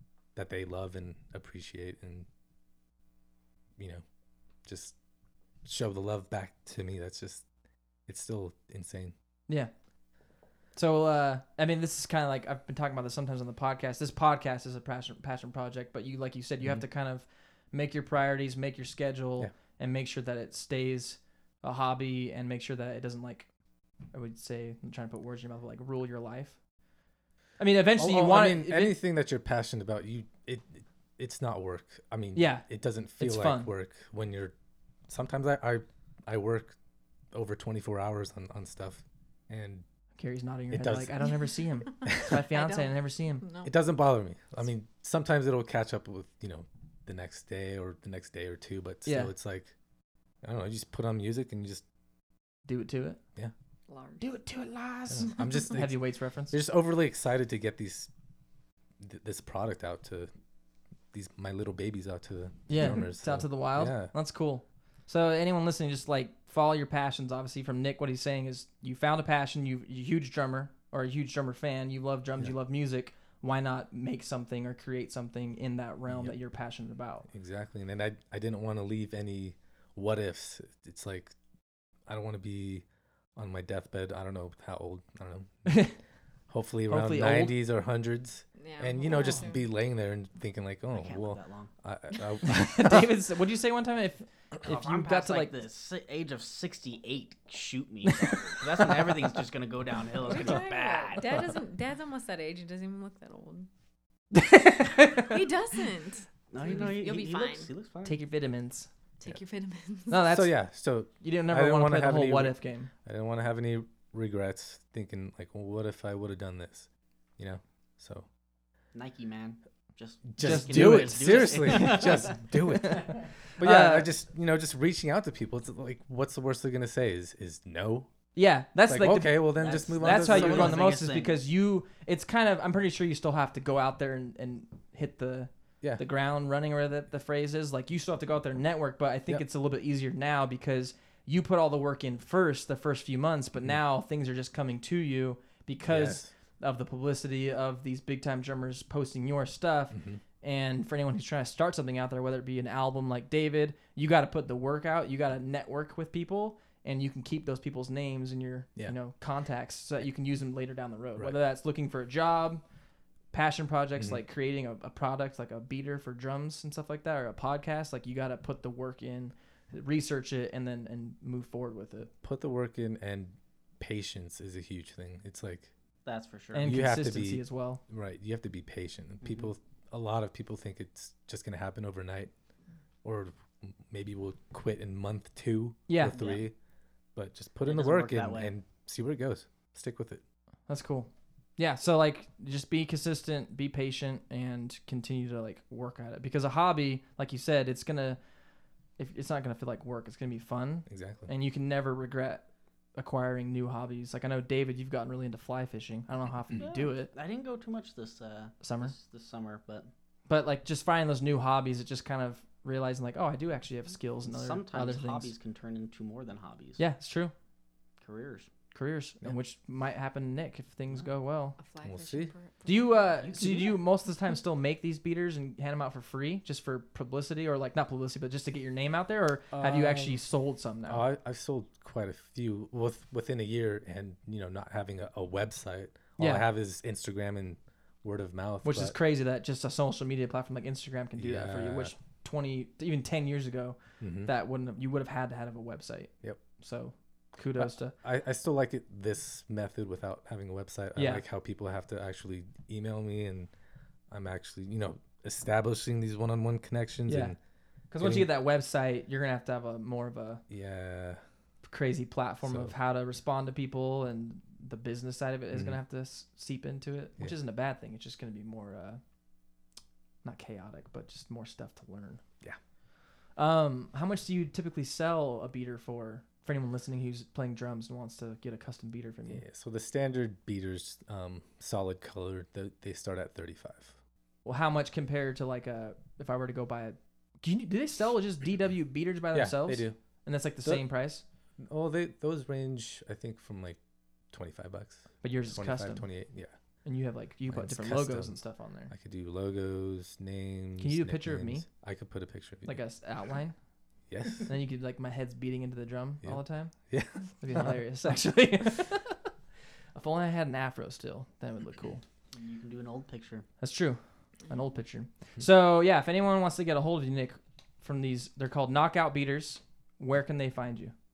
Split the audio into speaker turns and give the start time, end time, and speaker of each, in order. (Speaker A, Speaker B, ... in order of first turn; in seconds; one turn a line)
Speaker A: 0.3-2.3
Speaker A: 3.8-4.0
Speaker A: 4.6-5.0
Speaker A: 5.6-7.4
Speaker A: 8.1-9.1
Speaker B: 10.8-23.5
Speaker B: 24.1-26.6
Speaker B: 27.6-29.0
Speaker A: 27.9-34.5
Speaker B: 32.3-32.6
Speaker B: 33.2-33.7
Speaker A: 35.1-36.8
Speaker A: 37.3-39.8
Speaker B: 40.2-43.5
Speaker A: 40.7-41.1
Speaker A: 42.0-42.3
Speaker C: 42.3-43.7
Speaker A: 43.6-49.7
Speaker B: 49.0-49.3
Speaker A: 50.4-51.8
Speaker B: 52.6-53.2
Speaker C: 53.9-54.2
Speaker B: 54.2-56.5
Speaker A: 55.1-58.1
Speaker A: 59.0-60.3
Speaker A: 61.1-64.1
Speaker B: 62.7-77.3
Speaker A: 77.3-81.3
Speaker A: 82.1-82.8
Speaker A: 83.3-85.9
Speaker B: 85.7-86.0
Speaker A: 86.5-93.1
Speaker B: 86.9-87.5
Speaker C: 88.6-89.6
Speaker D: 90.9-91.7
Speaker B: 92.4-95.5
Speaker D: 94.6-101.4
Speaker B: 98.0-99.2
Speaker C: 100.2-103.7
Speaker B: 104.3-105.4
Speaker C: 105.1-107.7
Speaker D: 106.5-108.2
Speaker B: 108.0-108.9
Speaker C: 109.2-110.3
Speaker B: 110.1-110.5
Speaker A: 110.2-118.3
Speaker B: 111.2-112.9
Speaker D: 118.9-123.1
Speaker A: 120.3-128.1
Speaker B: 120.4-124.1
Speaker B: 128.3-162.6
Speaker A: 128.9-130.8
Speaker D: 129.5-131.4
Speaker A: 145.9-146.3
Speaker A: 149.9-150.2
Speaker B: 163.3-172.1
Speaker A: 172.2-175.7
Speaker D: 176.0-176.7
Speaker B: 176.5-177.8
Speaker A: 176.6-182.3
Speaker A: 183.0-186.5
Speaker B: 185.9-186.2
Speaker D: 186.1-186.4
Speaker A: 187.2-190.2
Speaker D: 187.6-188.5
Speaker B: 190.7-198.2
Speaker B: 199.0-207.1
Speaker A: 200.9-201.3
Speaker D: 206.6-209.9
Speaker B: 208.6-208.9
Speaker B: 210.3-215.3
Speaker D: 214.2-216.8
Speaker B: 216.8-217.3
Speaker D: 218.0-218.5
Speaker B: 218.7-221.6
Speaker C: 221.6-223.3
Speaker A: 221.8-222.3
Speaker B: 222.7-231.0
Speaker A: 229.5-230.2
Speaker A: 230.9-239.0
Speaker B: 236.2-236.4
Speaker B: 238.6-247.9
Speaker A: 241.2-241.9
Speaker A: 244.0-244.3
Speaker A: 247.6-253.5
Speaker B: 250.9-251.2
Speaker A: 254.1-257.4
Speaker B: 257.1-257.3
Speaker B: 257.9-260.4
Speaker A: 258.0-258.3
Speaker A: 260.5-261.2
Speaker B: 261.6-269.0
Speaker A: 262.4-262.7
Speaker A: 265.5-265.8
Speaker B: 270.2-272.2
Speaker B: 273.4-279.4
Speaker A: 279.3-284.0
Speaker B: 284.4-291.2
Speaker A: 289.3-290.0
Speaker A: 291.6-293.8
Speaker A: 294.3-296.5
Speaker B: 295.2-296.0
Speaker B: 296.8-298.9
Speaker A: 297.5-298.4
Speaker A: 298.9-302.8
Speaker B: 300.8-301.6
Speaker B: 302.6-303.5
Speaker A: 304.1-304.5
Speaker B: 304.4-306.7
Speaker A: 306.2-307.7
Speaker B: 307.4-309.2
Speaker B: 309.9-312.0
Speaker D: 312.3-313.4
Speaker B: 313.6-320.9